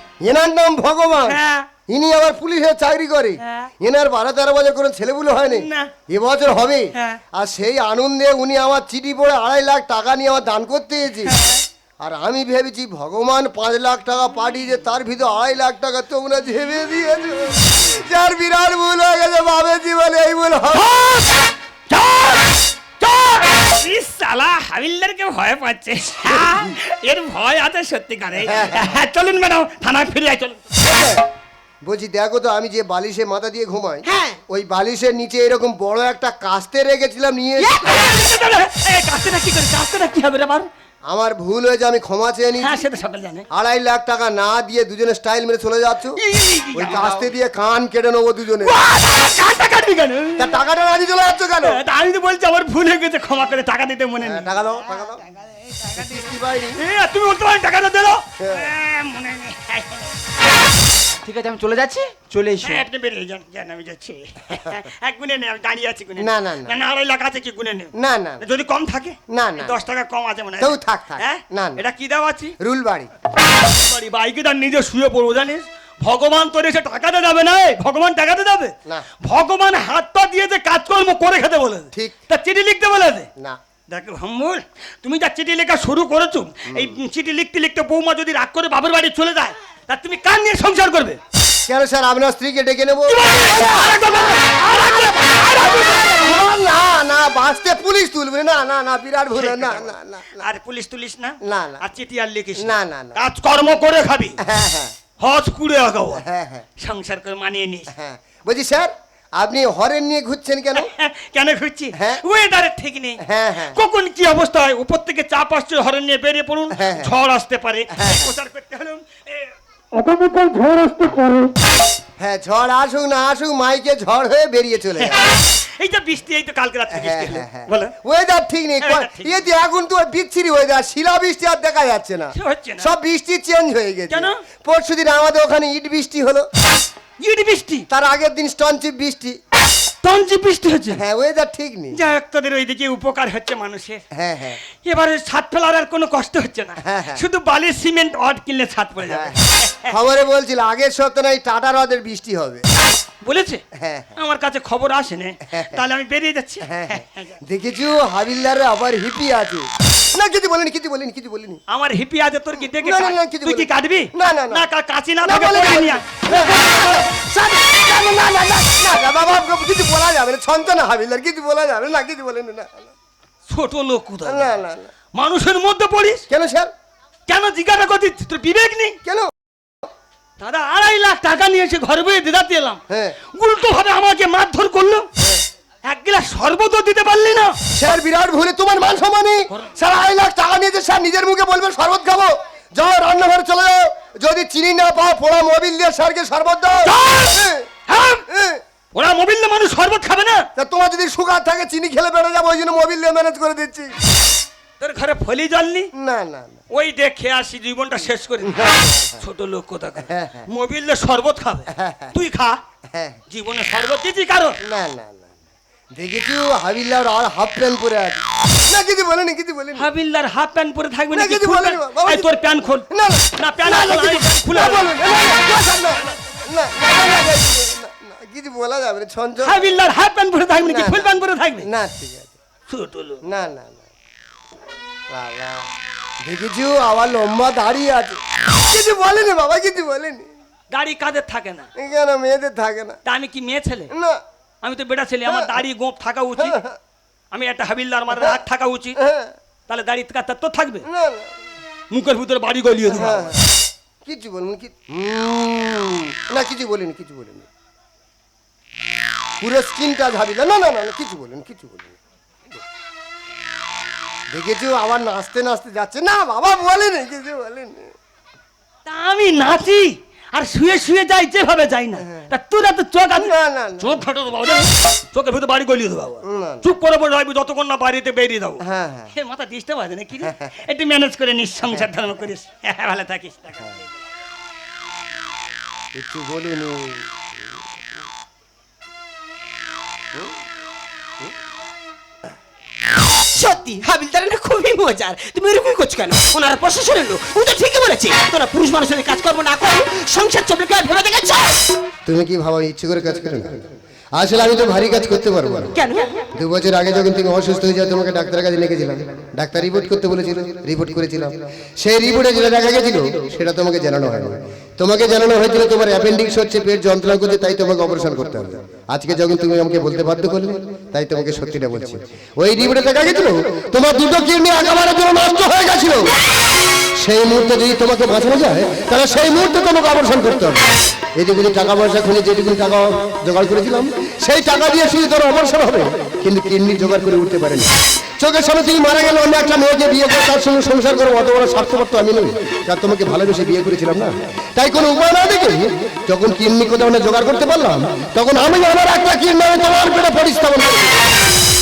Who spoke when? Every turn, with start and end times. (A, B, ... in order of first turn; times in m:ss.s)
0:00.2-0:11.3 A
0:01.3-0:01.6 B
0:05.5-0:05.9 B
0:11.3-0:11.6 B
0:12.0-0:20.9 A
0:20.7-0:30.6 B
0:26.4-0:26.6 A
0:28.4-0:28.9 A
0:30.8-0:31.2 A
0:31.8-0:37.8 A
0:34.0-0:34.4 C
0:37.6-0:38.1 C
0:37.8-0:40.7 B
0:41.1-0:42.8 A
0:42.6-0:43.4 B
0:43.5-0:46.2 A
0:46.2-0:47.0 B
0:46.7-0:48.8 A
0:46.9-0:47.3 D
0:48.6-0:50.5 B
0:50.4-0:51.8 A
0:51.6-0:54.5 B
0:54.2-0:55.2 A
0:55.9-0:56.8 A
0:56.8-1:00.1 B
0:58.4-0:58.7 A
1:01.2-1:02.8 D
1:02.6-1:12.5 B
1:06.2-1:06.8 A
1:08.0-1:08.4 A
1:09.3-1:09.8 A
1:10.6-1:11.8 A
1:12.6-1:13.1 A
1:13.7-1:23.3 B
1:23.9-1:31.2 B
1:31.7-1:40.4 A
1:33.1-1:36.3 B
1:39.4-1:44.4 B
1:41.4-1:41.8 A
1:42.6-1:43.2 A
1:44.4-1:44.9 A
1:45.2-1:46.2 B
1:46.1-1:46.6 A
1:46.8-1:47.9 B
1:47.9-1:50.9 A
1:50.7-1:53.2 B
1:52.0-1:52.2 A
1:53.2-1:53.8 A
1:53.7-2:01.5 B
1:56.7-1:57.1 A
1:57.9-1:58.3 A
2:02.2-2:05.2 A
2:05.0-2:07.9 B
2:06.9-2:16.5 A
2:08.8-2:09.4 B
2:12.4-2:12.9 B
2:17.2-2:17.8 B
2:17.9-2:19.4 A
2:20.0-2:21.0 B
2:20.9-2:22.0 A
2:21.9-2:24.0 B
2:24.1-2:24.6 A
2:24.8-2:29.9 B
2:26.8-2:27.2 A
2:29.1-2:29.4 A
2:29.9-2:32.6 A
2:33.2-2:33.6 B
2:33.7-2:34.2 A
2:34.2-2:37.4 B
2:35.5-2:35.8 A
2:36.6-2:41.6 A
2:41.7-2:47.3 B
2:42.7-2:44.7 A
2:45.2-2:52.9 A
2:53.5-2:54.5 B
2:54.2-2:54.9 A
2:55.1-2:56.2 B
2:56.3-2:56.7 A
2:57.3-2:59.0 B
2:59.0-2:59.3 A
3:00.4-3:02.8 B
3:02.9-3:03.2 A
3:03.3-3:05.0 B
3:05.9-3:07.5 B
3:07.7-3:17.7 A
3:09.5-3:09.8 B
3:16.8-3:18.2 B
3:18.3-3:18.6 A
3:18.9-3:20.4 B
3:20.6-3:23.9 A
3:24.8-3:25.9 B
3:25.9-3:26.6 A
3:26.7-3:32.6 B
3:28.4-3:29.2 A
3:30.0-3:30.5 A
3:31.7-3:32.1 A
3:32.9-3:33.2 A
3:33.3-3:34.6 B
3:34.6-3:35.3 A
3:35.9-3:39.9 A
3:39.7-3:42.8 B
3:41.1-3:42.3 A
3:42.9-3:49.7 A
3:43.4-3:44.9 B
3:49.4-3:51.7 B
3:50.6-3:51.1 A
3:51.6-3:52.3 A
3:52.7-3:53.2 B
3:53.2-3:53.8 A
3:55.1-3:55.7 A
3:56.2-4:00.3 A
4:00.7-4:01.7 B
4:01.8-4:03.0 A
4:03.0-4:03.9 B
4:03.9-4:04.2 A
4:04.6-4:06.6 B
4:05.2-4:05.5 A
4:06.4-4:06.8 A
4:07.3-4:09.0 B
4:09.0-4:09.3 A
4:09.7-4:10.8 B
4:10.8-4:11.3 A
4:11.9-4:13.4 B
4:12.9-4:13.4 A
4:14.0-4:17.5 A
4:19.4-4:22.0 A
4:24.3-4:27.9 A
4:28.8-4:38.6 B
4:32.0-4:32.3 A
4:33.2-4:34.0 A
4:36.2-4:36.7 A
4:38.6-4:39.1 A
4:39.2-4:43.7 B
4:40.2-4:40.5 A
4:45.9-4:47.6 A
4:53.3-5:01.6 C
5:02.0-5:05.7 A
5:05.7-5:06.2 C
5:06.3-5:26.1 A
5:27.0-5:30.6 A
5:31.2-5:51.0 A